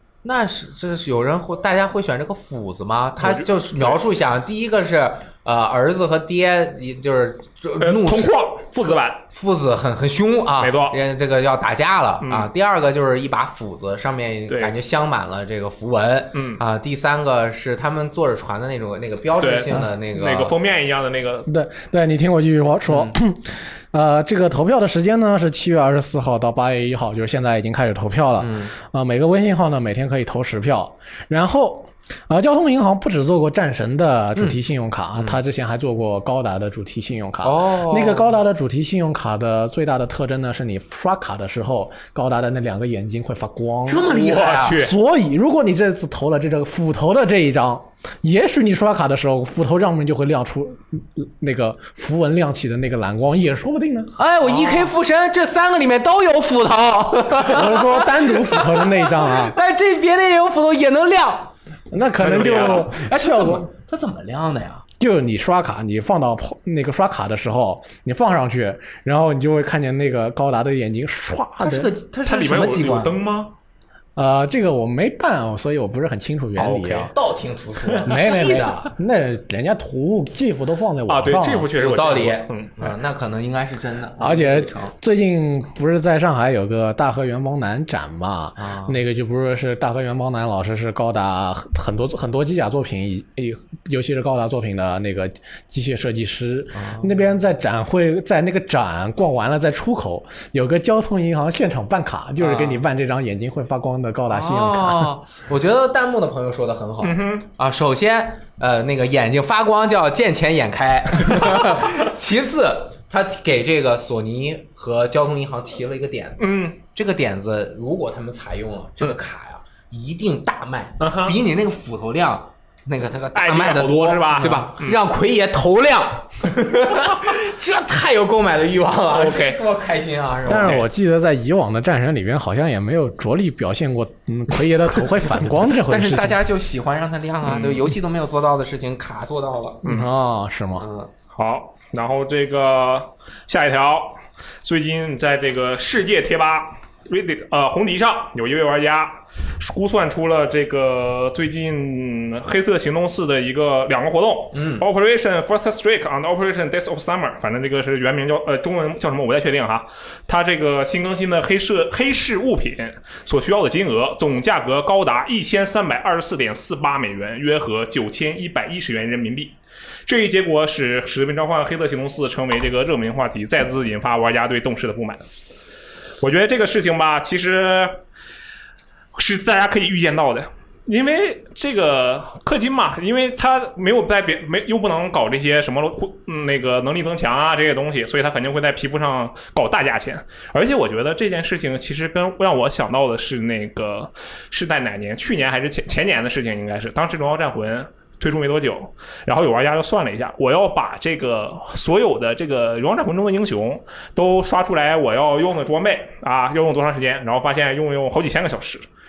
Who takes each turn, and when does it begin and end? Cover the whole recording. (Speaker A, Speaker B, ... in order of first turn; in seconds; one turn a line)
Speaker A: 0.2-8.3
Speaker B: 3.2-4.0
Speaker B: 7.8-9.2
Speaker A: 9.3-20.5
Speaker B: 10.6-11.0
Speaker B: 12.2-12.5
Speaker B: 14.5-14.7
Speaker B: 16.3-16.6
Speaker B: 19.4-21.5
Speaker C: 21.5-54.1
Speaker A: 22.9-23.1
Speaker A: 28.4-28.7
Speaker A: 35.1-35.4
Speaker A: 37.4-38.3
Speaker A: 43.9-44.9
Speaker B: 44.1-44.9
Speaker A: 54.1-61.5
Speaker C: 57.3-59.5
Speaker C: 61.9-63.6
Speaker B: 62.2-62.9
Speaker A: 62.2-64.8
Speaker C: 65.0-71.9
Speaker A: 71.6-73.2
Speaker B: 72.2-73.5
Speaker C: 74.2-77.1
Speaker B: 76.6-77.1
Speaker A: 77.1-78.9
Speaker C: 78.0-81.7
Speaker B: 81.1-82.9
Speaker A: 81.7-84.9
Speaker C: 84.2-105.1
Speaker A: 88.6-89.0
Speaker A: 96.7-97.1
Speaker A: 102.4-102.8
Speaker A: 104.3-130.8
Speaker B: 107.0-107.4
Speaker B: 116.4-116.8
Speaker B: 121.0-121.4
Speaker B: 123.3-124.9
Speaker B: 129.1-129.6
Speaker C: 130.5-136.4
Speaker B: 130.5-130.9
Speaker A: 135.7-139.8
Speaker B: 137.4-137.9
Speaker B: 139.8-140.1
Speaker C: 139.8-140.8
Speaker A: 140.8-141.1
Speaker B: 141.3-175.2
Speaker A: 154.5-154.8
Speaker B: 176.2-177.9
Speaker B: 179.1-208.8